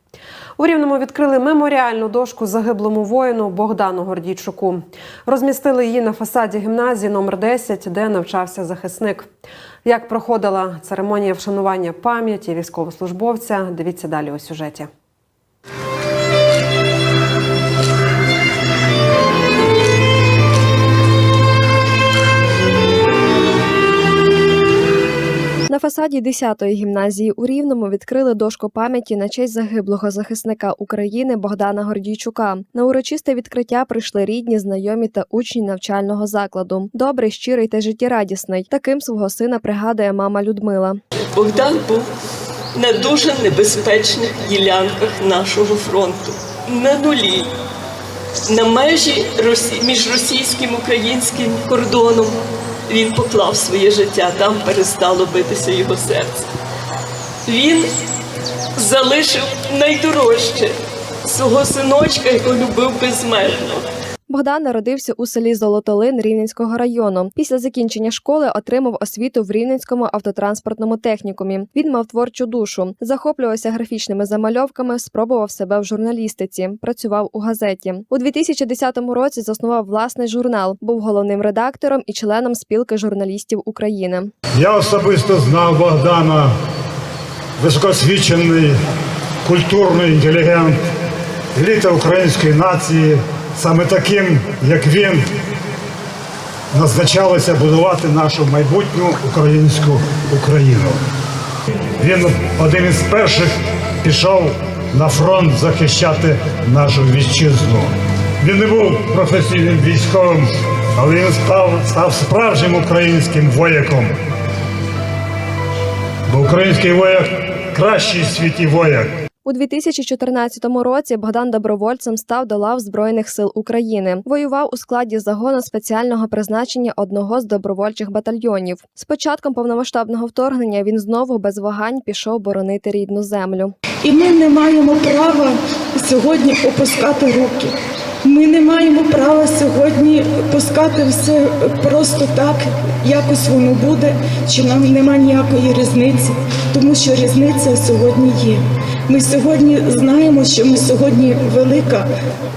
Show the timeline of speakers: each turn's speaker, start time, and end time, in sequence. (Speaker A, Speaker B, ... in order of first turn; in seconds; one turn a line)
Speaker A: 0.6-9.3
Speaker A: 9.8-14.9
Speaker B: 25.7-41.0
Speaker C: 41.2-42.1
Speaker C: 42.8-47.5
Speaker C: 48.5-56.5
Speaker C: 57.5-57.9
Speaker C: 58.8-63.9
Speaker B: 64.3-84.3
Speaker D: 84.5-86.5
Speaker D: 87.6-88.8
Speaker D: 89.4-90.8
Speaker D: 91.5-95.3
Speaker D: 96.7-101.0
Speaker D: 102.0-114.1
Speaker D: 116.3-119.1
Speaker B: 119.5-133.8
Speaker E: 134.0-137.7
Speaker E: 138.2-152.1